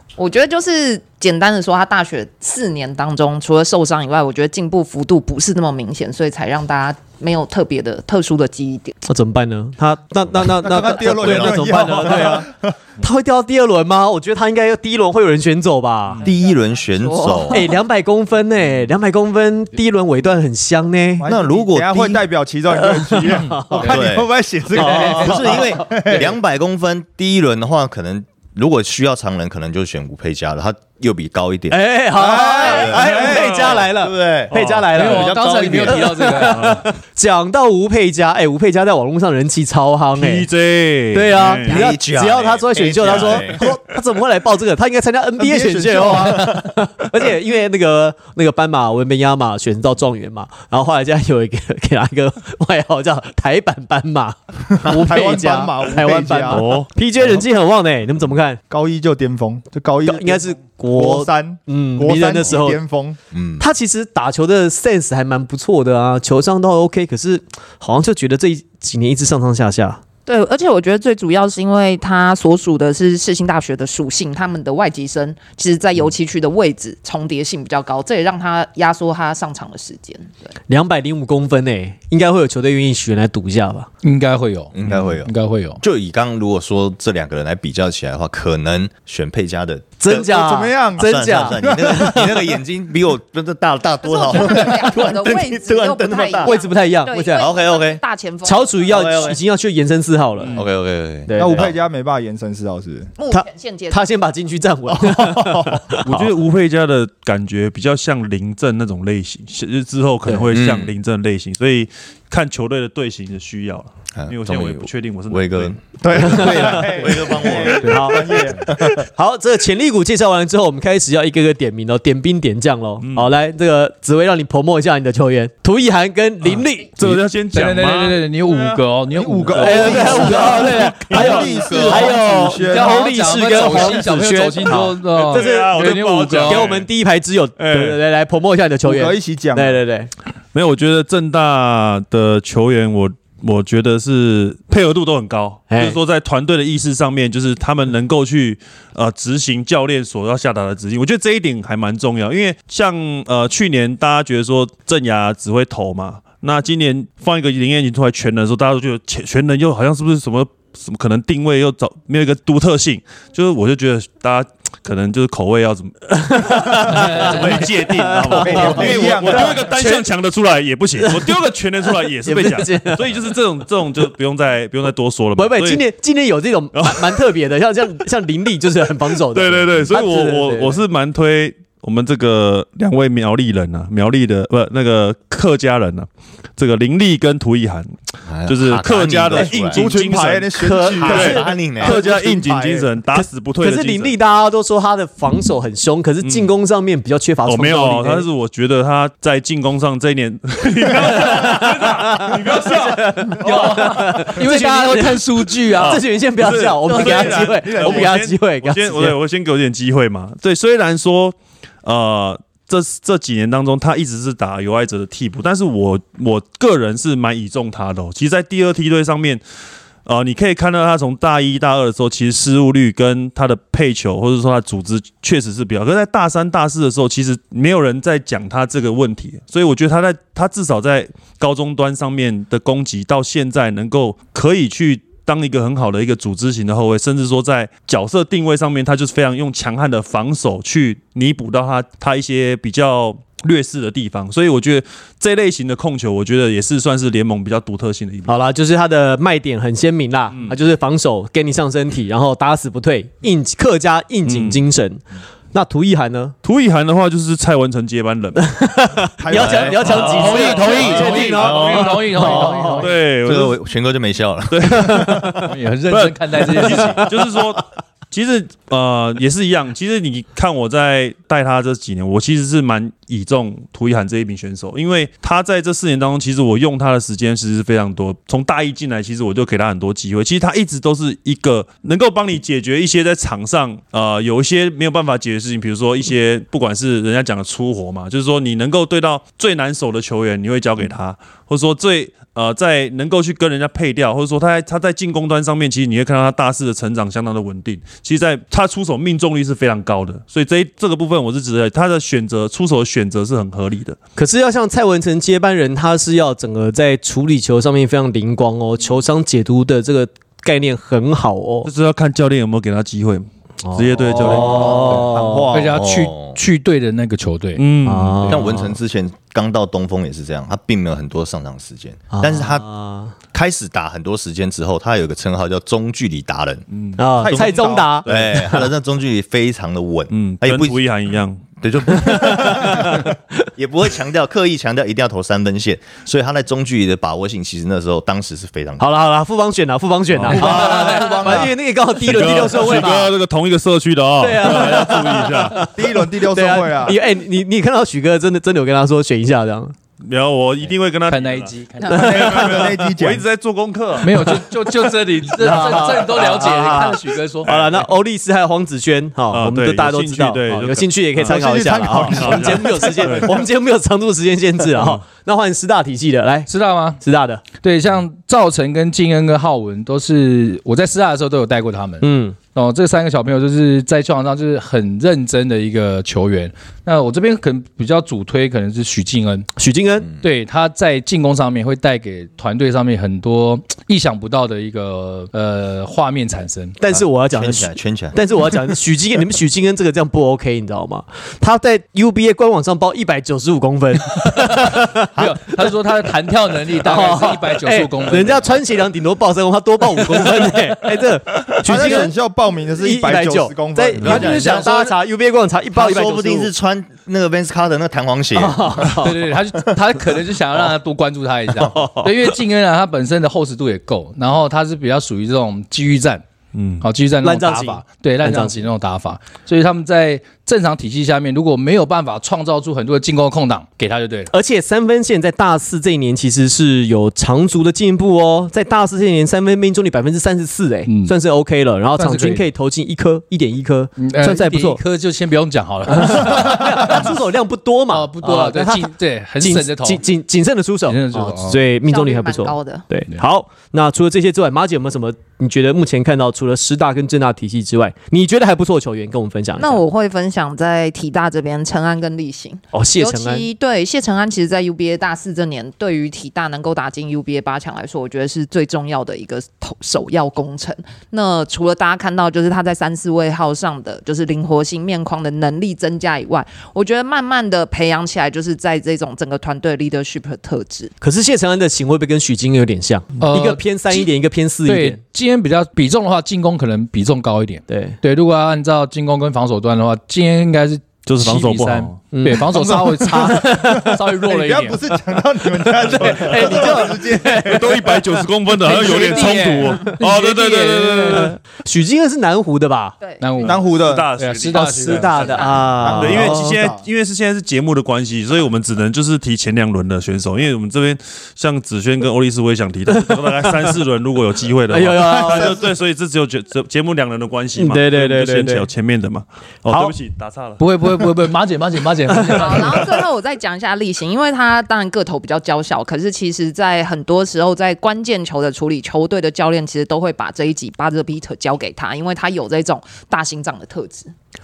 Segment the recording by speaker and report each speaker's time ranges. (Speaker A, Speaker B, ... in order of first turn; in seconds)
Speaker A: 0.2-8.9, 16.9-17.7, 70.3-80.5, 94.0-99.3, 103.2-104.0, 441.9-442.9, 449.6-470.9, 493.0-493.5, 495.2-495.6, 512.4-524.1
Speaker B: 9.1-16.2, 17.5-21.3, 22.7-24.0, 24.7-26.2, 31.7-40.5, 41.1-58.6, 60.0-62.8, 63.6-70.0, 80.7-83.9, 90.0-92.3, 96.4-97.5, 98.4-100.6, 101.3-101.7, 103.3-106.3, 116.2-117.1, 117.8-127.2, 129.5-135.9, 136.4-140.1, 145.7-146.0, 166.1-170.1, 171.0-173.2, 175.4-180.8, 190.6-191.5, 193.2-198.3, 200.9-209.2, 248.3-256.4, 258.4-262.9, 264.8-265.5, 266.7-267.1, 304.2-311.7, 313.6-315.5, 317.8-318.8, 322.1-323.1, 327.0-328.6, 331.9-333.1, 338.8-343.1, 344.2-349.8, 351.9-352.7, 355.3-366.5, 367.0-367.4, 372.0-372.4, 379.6-380.1, 386.8-395.7, 396.7-402.2, 402.7-406.5, 408.4-409.2, 417.2-418.7, 424.3-434.8, 435.9-449.8, 452.7-453.5, 471.0-475.0, 477.7-478.0, 482.1-483.9, 485.8-493.0, 494.5-496.6, 502.9-503.7, 504.7-505.7, 507.6-508.7, 509.7-509.9, 512.1-512.7
Speaker C: 10.6-12.8, 21.2-26.3, 32.2-33.4, 45.8-46.2, 54.7-56.6, 58.7-63.2, 90.2-92.1, 101.4-103.1, 116.0-118.7, 129.2-133.1, 138.8-139.8, 168.3-169.7, 189.6-192.9, 206.9-208.1, 259.2-260.4, 314.2-315.8, 327.2-328.0, 340.3-341.5, 345.8-347.0, 351.9-353.2, 361.3-363.3, 401.6-404.5, 482.6-487.9, 493.4-494.1, 495.8-496.8
Speaker D: 16.2-17.7, 21.2-22.2, 23.8-31.8, 32.5-36.0, 41.6-43.6, 46.0-46.7, 63.3-63.7, 84.7-90.3, 91.0-96.6, 97.4-98.0, 98.9-99.4, 100.5-101.8, 110.5-110.9, 114.2-119.0, 188.3-189.9, 191.0-192.0, 259.3-259.9, 261.4-262.3, 262.9-265.3, 315.6-316.4, 318.3-322.7, 323.3-326.6, 328.1-330.8, 331.6-338.9, 386.9-388.7, 404.0-404.8, 405.7-409.0, 411.6-412.1
Speaker E: 33.1-33.9, 34.5-34.9, 36.5-36.9, 40.1-41.9, 56.5-56.9, 106.0-115.8, 123.0-123.3, 127.0-128.8, 129.8-132.0, 135.2-136.9, 137.6-138.0, 140.5-175.8, 176.7-177.3, 179.3-194.2, 196.2-196.5, 197.5-204.3, 205.7-219.4, 220.1-248.4, 254.3-254.6, 256.4-258.6, 259.4-263.6, 264.5-304.0, 311.6-314.9, 317.6-318.4, 326.7-327.0, 330.1-331.5, 340.1-341.3, 342.0-345.7, 350.0-354.4, 357.5-357.8, 359.3-361.4, 362.0-363.3, 416.5-416.9, 481.1-482.0, 487.4-491.4, 493.5-510.6
Speaker F: 34.9-36.9, 84.0-85.8, 127.5-136.7, 166.9-167.4, 203.4-206.0, 260.1-262.9, 265.4-267.0, 314.9-317.6, 351.1-352.2, 354.0-357.6, 366.5-379.5, 380.1-386.8, 394.2-398.6, 404.1-404.7, 409.0-416.2, 416.8-424.3, 430.9-431.1, 432.0-432.5, 434.0-437.1, 437.9-440.0, 440.9-441.6, 473.2-474.1, 474.7-484.8, 485.9-486.6, 488.6-490.0, 491.0-491.3, 493.2-495.2, 510.6-512.8